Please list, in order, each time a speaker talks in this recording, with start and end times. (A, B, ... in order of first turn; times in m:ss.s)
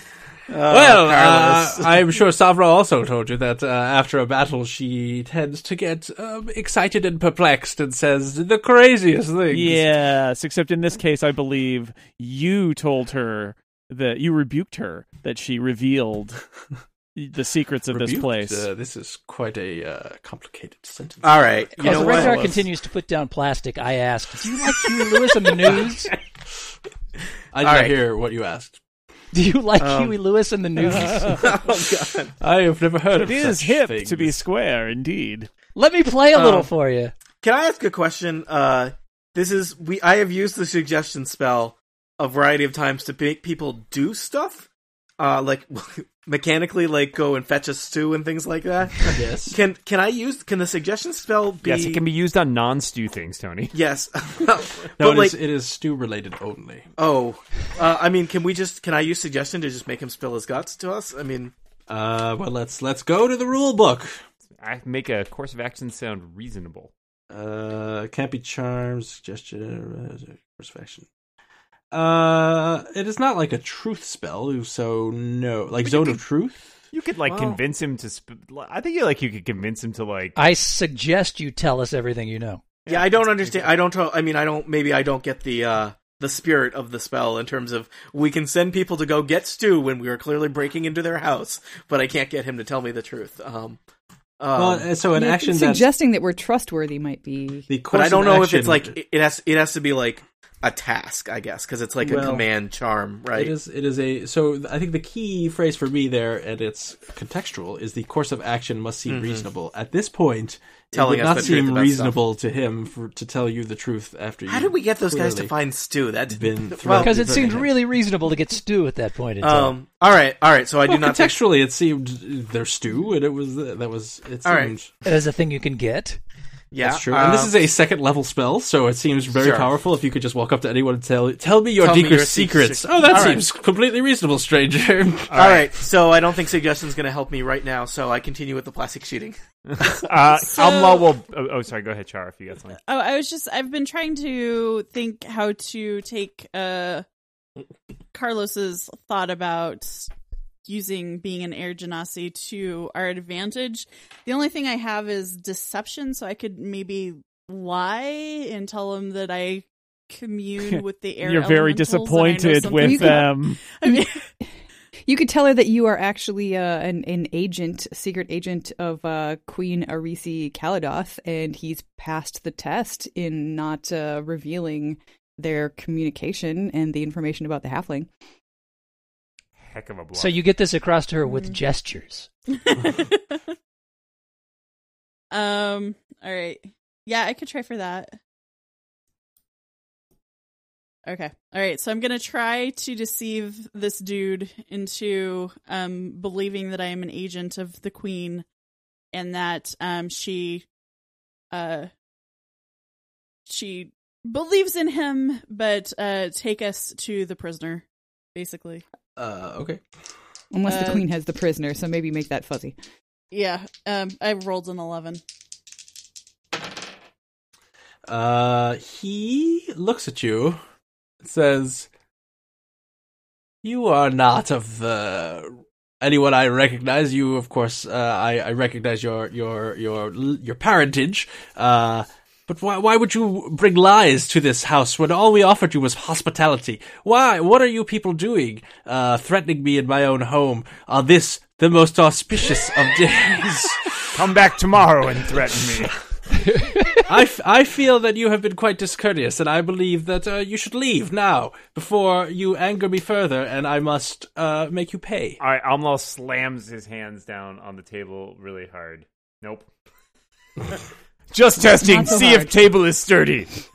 0:00.5-0:02.0 A
0:00.7-0:09.9 B
0:09.5-0:16.4 C
0:17.1-0:18.7 C
0:17.9-0:22.6 B
0:21.2-0:22.6 A
0:21.8-0:26.1 D
0:27.5-0:28.8 B
0:27.6-0:27.9 A
0:29.3-0:31.4 D
0:29.8-0:30.2 A
0:31.2-0:32.3 A
0:32.4-0:34.4 B
0:33.1-0:35.5 C
0:35.7-0:37.1 D
0:36.3-0:36.7 A
0:37.4-0:44.7 A
0:45.2-0:52.0 A
0:49.1-0:49.6 B
0:51.6-0:53.7 E
0:53.7-0:55.3 A
0:55.0-0:56.9 B
0:57.0-1:01.5 A
1:01.9-1:04.2 B
1:04.6-1:06.9 E
1:07.3-1:11.0 B
1:11.9-1:16.8 B
1:15.9-1:16.2 E
1:16.9-1:20.4 E
1:17.2-1:17.6 A
1:20.4-1:22.6 D
1:22.8-1:23.7 E
1:22.9-1:33.8 A
1:34.4-1:34.9 A
1:34.6-1:35.9 B
1:35.1-1:37.7 F
1:37.7-1:39.0 B
1:37.9-1:43.5 A
1:42.0-1:42.5 B
1:43.3-1:55.5 B
1:49.1-1:49.4 A
1:50.9-1:52.2 A
1:54.5-1:57.6 A
1:56.3-1:57.7 B
1:56.9-1:59.7 D
1:59.4-2:01.3 A
2:00.8-2:04.9 B
2:04.4-2:04.7 A
2:05.0-2:06.2 D
2:06.7-2:07.6 A
2:06.8-2:15.4 B
2:09.4-2:09.7 A
2:11.8-2:13.4 A
2:15.3-2:15.7 E
2:15.3-2:19.4 A
2:19.7-2:22.8 E
2:20.5-2:21.1 G
2:22.9-2:27.0 G
2:28.1-2:30.1 G
2:30.6-2:44.3 G
2:40.7-2:43.7 C
2:42.6-2:44.1 F
2:45.1-2:58.1 F
2:59.6-3:00.4 E
3:00.1-3:02.3 D
3:02.7-3:03.4 G
3:05.3-3:08.2 G
3:11.0-3:18.4 G
3:19.1-3:20.6 G
3:21.5-3:21.9 G
3:23.5-3:27.8 G
3:28.3-3:28.8 G
3:29.2-3:29.8 B
3:30.5-3:32.8 F
3:30.6-3:31.1 G
3:33.3-3:35.2 G
3:38.1-3:40.6 B
3:41.2-3:41.9 B
3:43.6-4:04.3 B
4:04.1-4:05.9 E
4:07.0-4:15.4 B
4:15.4-4:19.7 E
4:21.3-4:23.6 E
4:21.7-4:22.7 F